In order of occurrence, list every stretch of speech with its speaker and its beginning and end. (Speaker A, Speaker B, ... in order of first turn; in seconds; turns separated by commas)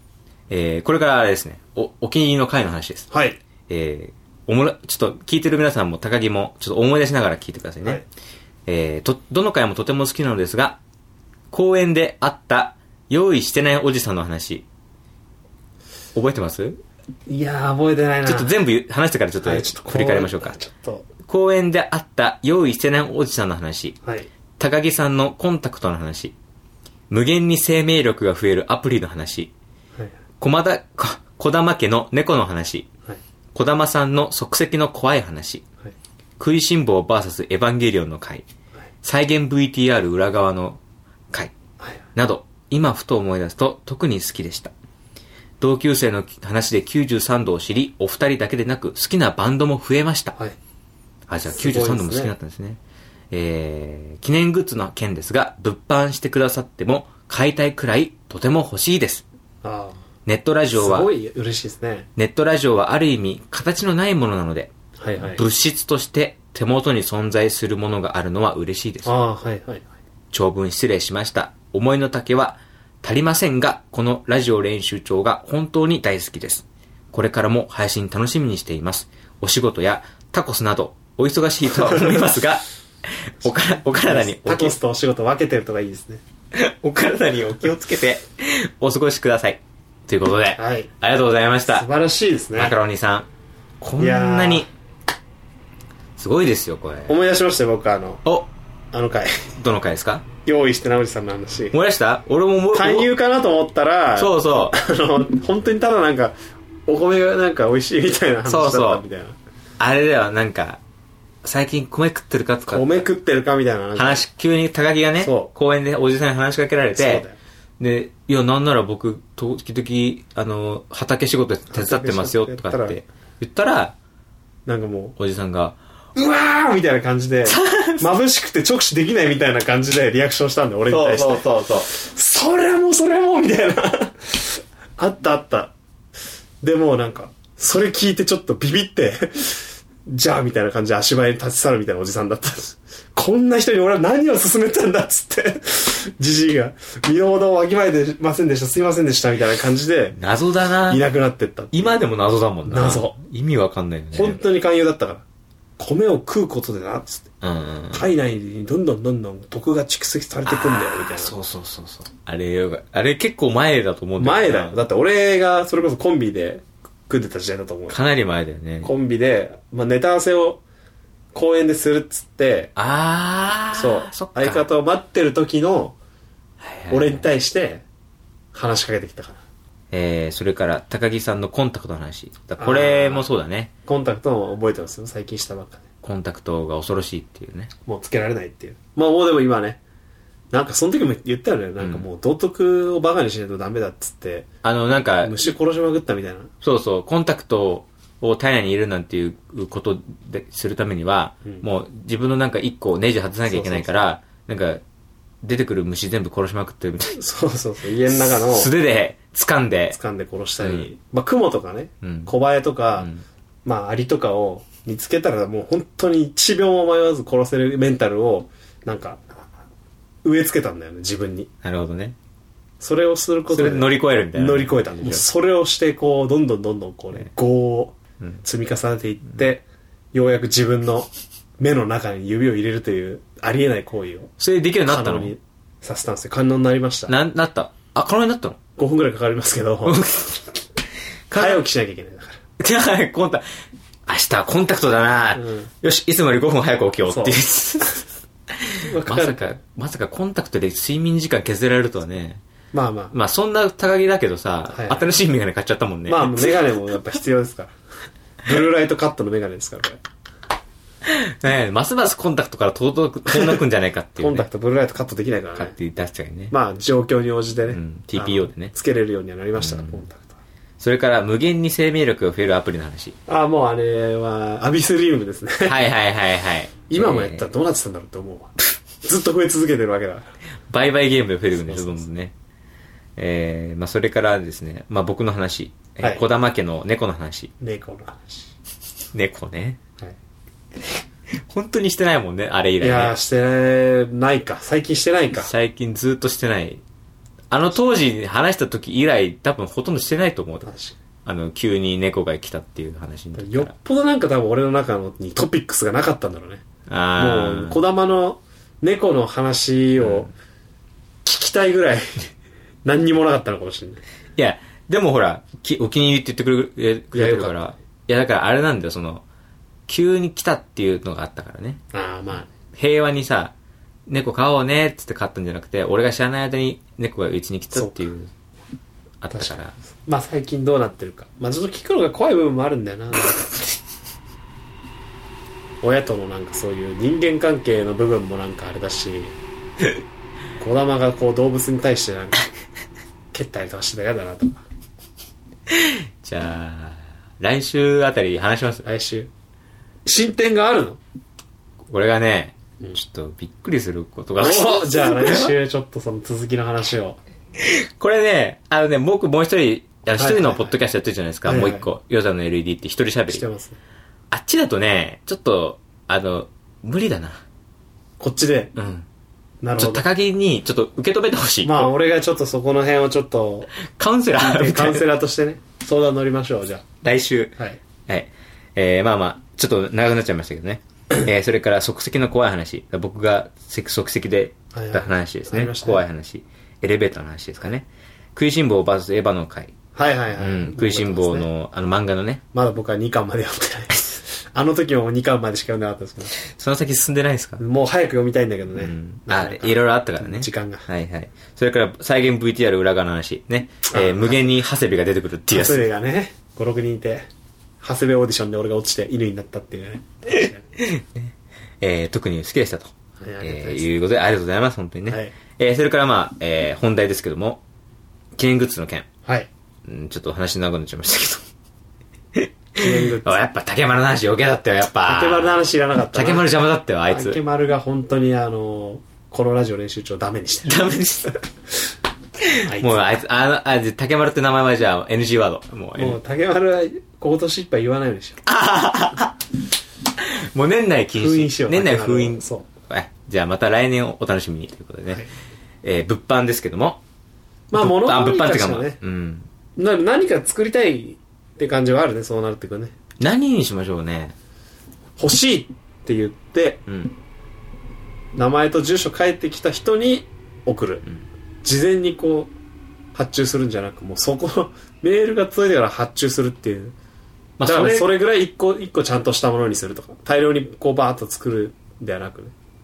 Speaker A: 0.5-3.1, Speaker B: 3.1-3.4, Speaker A: 3.7-8.0, Speaker A: 8.7-10.8, Speaker A: 11.5-14.7, Speaker A: 16.1-16.8, Speaker B: 17.3-18.5, Speaker A: 18.2-20.6, Speaker B: 19.4-21.1, Speaker A: 21.2-24.0, Speaker A: 24.6-26.4, Speaker A: 27.1-29.5, Speaker A: 30.4-32.9, Speaker A: 33.5-35.6, Speaker A: 36.4-38.5, Speaker A: 39.0-40.8, Speaker A: 42.1-44.7, Speaker A: 45.6-50.4, Speaker A: 51.3-52.8, Speaker B: 51.5-52.3, Speaker A: 53.3-59.2, Speaker B: 59.6-60.0, Speaker A: 60.3-61.1, Speaker B: 60.7-62.1, Speaker A: 62.2-69.1, Speaker B: 65.0-65.4, Speaker B: 69.0-69.9, Speaker A: 70.3-84.8, Speaker B: 81.9-82.2, Speaker B: 83.8-86.2, Speaker A: 86.5-91.9, Speaker B: 90.6-90.9, Speaker B: 91.7-92.8, Speaker A: 92.6-93.3, Speaker A: 93.8-94.7, Speaker B: 93.9-94.7, Speaker A: 96.2-97.1, Speaker B: 97.1-98.2, Speaker A: 98.2-98.5, Speaker B: 98.9-99.5, Speaker A: 99.6-100.3, Speaker B: 100.5-101.8, Speaker A: 101.7-103.1, Speaker B: 102.7-106.3, Speaker A: 104.2-104.8, Speaker B: 106.9-109.4, Speaker A: 108.5-109.0, Speaker A: 109.8-110.8, Speaker A: 111.4-113.1, Speaker B: 112.7-114.2, Speaker A: 114.0-117.2, Speaker B: 115.2-115.5, Speaker B: 117.0-117.4, Speaker A: 117.8-124.0, Speaker B: 121.7-123.0, Speaker B: 124.7-125.2, Speaker A: 125.2-125.8, Speaker B: 126.2-135.7, Speaker A: 127.5-128.1, Speaker A: 130.9-131.9, Speaker B: 136.6-150.2, Speaker A: 150.2-151.0, Speaker B: 150.9-152.0, Speaker A: 151.7-154.4, Speaker B: 152.7-153.2, Speaker B: 154.1-155.2, Speaker B: 155.8-157.2, Speaker A: 157.4-158.1, Speaker B: 157.9-161.3, Speaker A: 160.5-164.8, Speaker B: 164.2-168.0, Speaker A: 167.9-168.9, Speaker B: 168.8-170.6, Speaker B: 171.3-172.7, Speaker A: 172.8-174.7, Speaker B: 173.7-176.0, Speaker A: 176.6-177.2, Speaker B: 176.9-177.8, Speaker B: 178.5-179.4, Speaker A: 179.9-183.7, Speaker B: 182.6-183.3, Speaker B: 183.9-185.8, Speaker A: 186.0-187.7, Speaker B: 187.9-189.8, Speaker B: 190.5-194.5, Speaker A: 191.8-192.1, Speaker A: 194.6-195.4, Speaker B: 195.2-196.5, Speaker A: 196.6-204.8, Speaker B: 203.5-204.1, Speaker A: 205.4-207.2, Speaker B: 207.1-208.7, Speaker A: 208.1-210.0, Speaker B: 209.9-213.1, Speaker A: 210.6-210.9, Speaker A: 212.0-212.3, Speaker A: 213.0-213.2, Speaker B: 213.7-219.4, Speaker B: 220.2-221.5, Speaker A: 221.6-222.2, Speaker B: 222.8-234.3, Speaker A: 223.5-225.2, Speaker A: 234.4-235.3, Speaker B: 234.9-237.1, Speaker A: 237.1-238.6, Speaker B: 238.8-240.1, Speaker A: 239.8-240.5, Speaker A: 241.3-241.6, Speaker B: 241.3-242.4, Speaker A: 242.6-243.4, Speaker A: 244.1-252.4, Speaker B: 245.4-245.7, Speaker B: 247.1-247.9, Speaker B: 248.8-249.6, Speaker B: 252.7-253.1, Speaker A: 253.1-256.6, Speaker B: 254.7-255.1, Speaker B: 256.1-257.7, Speaker B: 258.4-260.0, Speaker A: 261.0-264.5, Speaker B: 264.2-265.8, Speaker A: 265.6-266.5, Speaker B: 266.5-270.4, Speaker A: 267.7-268.7, Speaker A: 269.6-270.0, Speaker A: 270.8-273.2, Speaker B: 273.3-275.8, Speaker A: 275.6-277.4, Speaker B: 276.9-280.3, Speaker A: 280.7-282.3, Speaker B: 281.7-282.0, Speaker A: 283.2-287.5, Speaker B: 287.6-288.5, Speaker A: 289.1-289.8, Speaker A: 291.3-293.1, Speaker B: 292.8-295.5, Speaker A: 295.4-296.8, Speaker A: 297.5-300.7, Speaker B: 300.6-301.0, Speaker A: 301.2-303.7, Speaker B: 303.4-306.6, Speaker A: 306.9-307.8, Speaker B: 307.2-310.3, Speaker A: 310.0-310.3, Speaker B: 311.2-312.3, Speaker B: 312.9-314.0, Speaker A: 314.4-319.2, Speaker B: 317.1-317.6, Speaker A: 319.9-321.8, Speaker B: 321.9-322.5, Speaker A: 322.7-323.5, Speaker A: 324.1-328.3, Speaker B: 327.7-328.0, Speaker A: 329.2-329.8, Speaker B: 329.3-333.5, Speaker B: 335.8-339.4, Speaker B: 340.6-342.5, Speaker B: 343.3-344.6, Speaker A: 345.7-348.9, Speaker B: 348.8-349.3, Speaker B: 350.1-351.0, Speaker A: 351.9-355.5, Speaker B: 354.4-357.2, Speaker A: 357.6-363.4, Speaker B: 360.2-360.7, Speaker B: 361.4-361.9, Speaker B: 363.3-363.8, Speaker A: 364.3-367.4, Speaker B: 368.2-368.7, Speaker A: 368.8-369.1, Speaker B: 369.6-370.1, Speaker A: 369.8-371.9, Speaker B: 371.6-373.7, Speaker A: 373.9-375.1, Speaker B: 374.4-376.9, Speaker A: 377.0-377.6, Speaker A: 378.1-389.7, Speaker B: 384.7-386.0, Speaker B: 389.9-391.5, Speaker A: 390.4-392.4, Speaker B: 392.5-396.4, Speaker A: 396.4-397.6, Speaker B: 397.6-400.9, Speaker A: 398.7-405.9, Speaker B: 403.9-404.4, Speaker B: 405.5-407.3, Speaker B: 407.8-410.7, Speaker A: 410.8-417.6, Speaker B: 413.2-413.9, Speaker B: 415.1-415.3, Speaker A: 418.4-419.1, Speaker A: 419.9-421.4, Speaker A: 422.3-425.6, Speaker B: 422.8-423.4, Speaker B: 425.1-426.5, Speaker A: 426.1-427.4, Speaker B: 427.1-430.8, Speaker A: 430.6-431.4, Speaker A: 432.4-436.2, Speaker B: 432.6-433.2, Speaker B: 436.0-438.4, Speaker A: 438.4-439.4, Speaker A: 440.2-445.2, Speaker B: 441.2-442.7, Speaker A: 445.8-447.0, Speaker B: 447.7-449.0, Speaker A: 447.7-449.5, Speaker B: 449.8-452.9, Speaker A: 453.2-454.4, Speaker B: 455.2-456.9, Speaker A: 456.9-457.1, Speaker B: 458.4-461.1, Speaker B: 461.6-462.5, Speaker B: 463.1-466.9, Speaker A: 467.6-468.1, Speaker B: 467.6-472.5